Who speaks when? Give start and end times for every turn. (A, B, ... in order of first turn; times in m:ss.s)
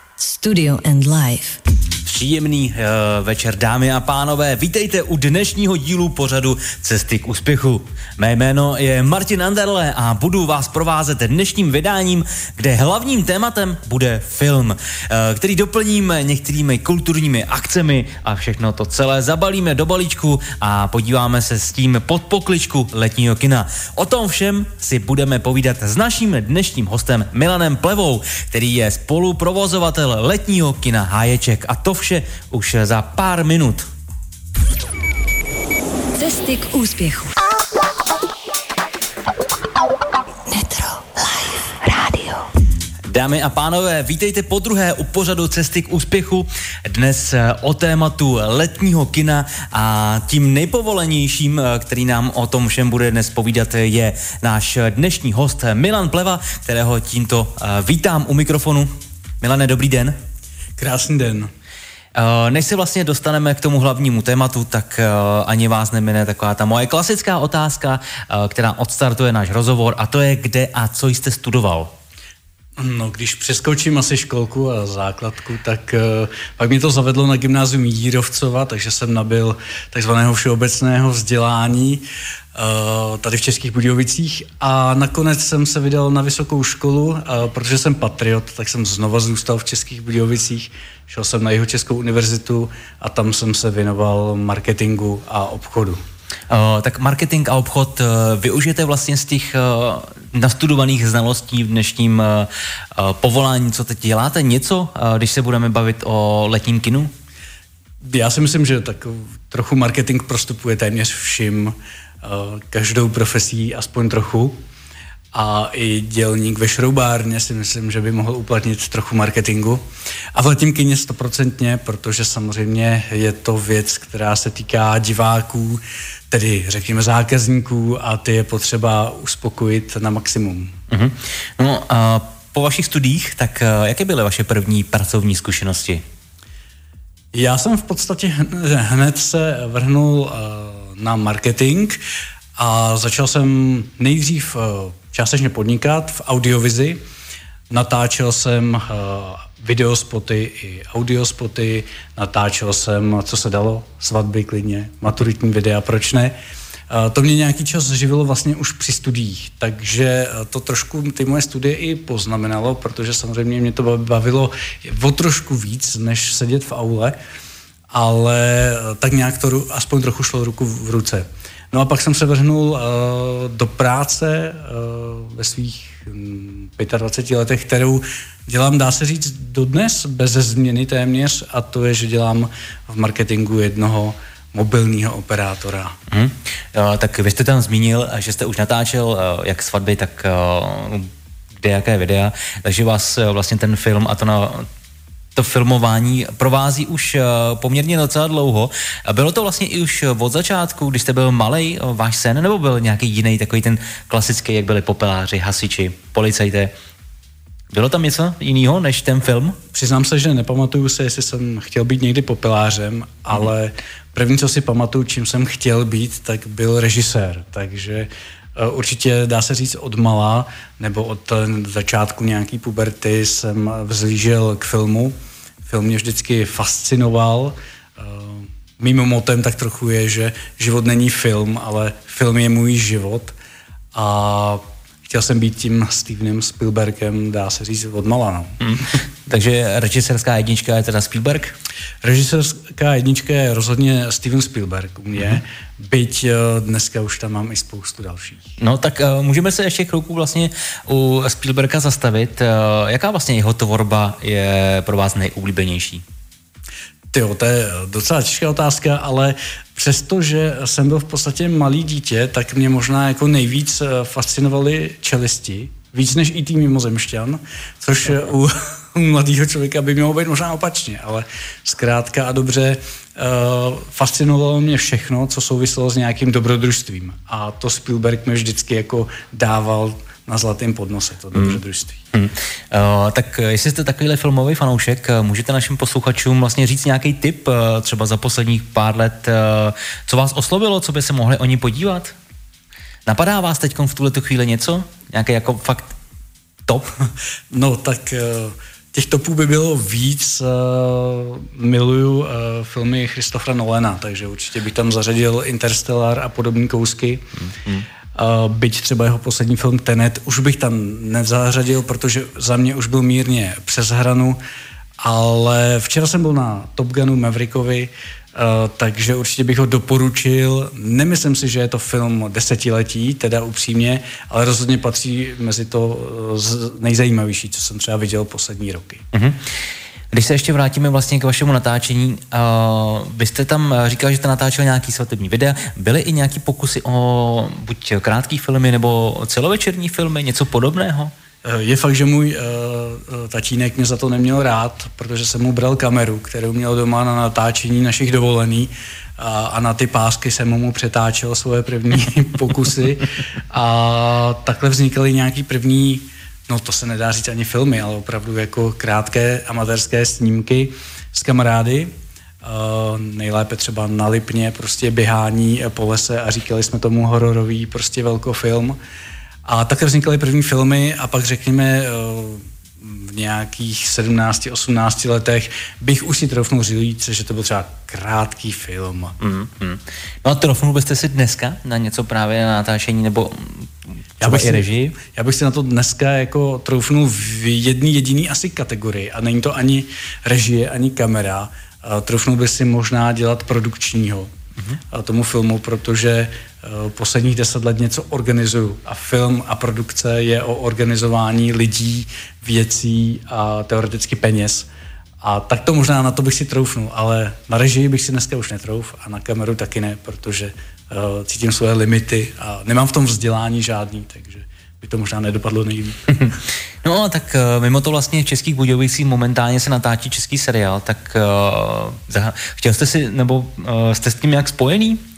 0:00.2-0:01.6 A
0:02.1-0:33.9 B
0:36.2-0:37.3 A
0:40.5-0:42.5 A
0:43.1-0:58.9 B
0:59.4-1:00.2 B
1:00.8-1:01.5 C
1:02.2-1:11.9 B
1:12.8-1:36.0 C
1:36.5-1:47.1 B
1:48.0-1:54.6 C
1:55.3-2:10.7 C
2:10.9-2:16.0 B
2:17.3-2:22.0 C
2:22.6-2:27.0 C
2:27.7-2:36.4 C
2:36.9-2:47.2 C
2:47.9-3:06.0 C
3:06.1-3:14.7 B
3:15.4-3:26.7 B
3:27.7-3:29.6 B
3:29.7-3:53.3 C
3:53.9-3:58.6 C
3:58.6-4:01.5 B
4:02.0-4:08.5 C
4:08.6-4:16.0 B
4:17.1-4:42.0 C
4:42.1-4:52.1 B
4:53.1-4:55.9 B
4:57.5-5:07.2 C
5:07.4-5:07.9 B
5:08.1-5:14.4 C
5:15.0-5:29.0 C
5:29.1-5:29.4 B
5:30.1-5:41.1 B
5:41.4-6:08.8 C
6:09.4-6:19.2 C
6:19.2-6:25.0 B
6:24.2-6:34.3 C
6:34.9-6:44.7 C
6:45.2-6:56.0 C
6:56.2-7:05.0 B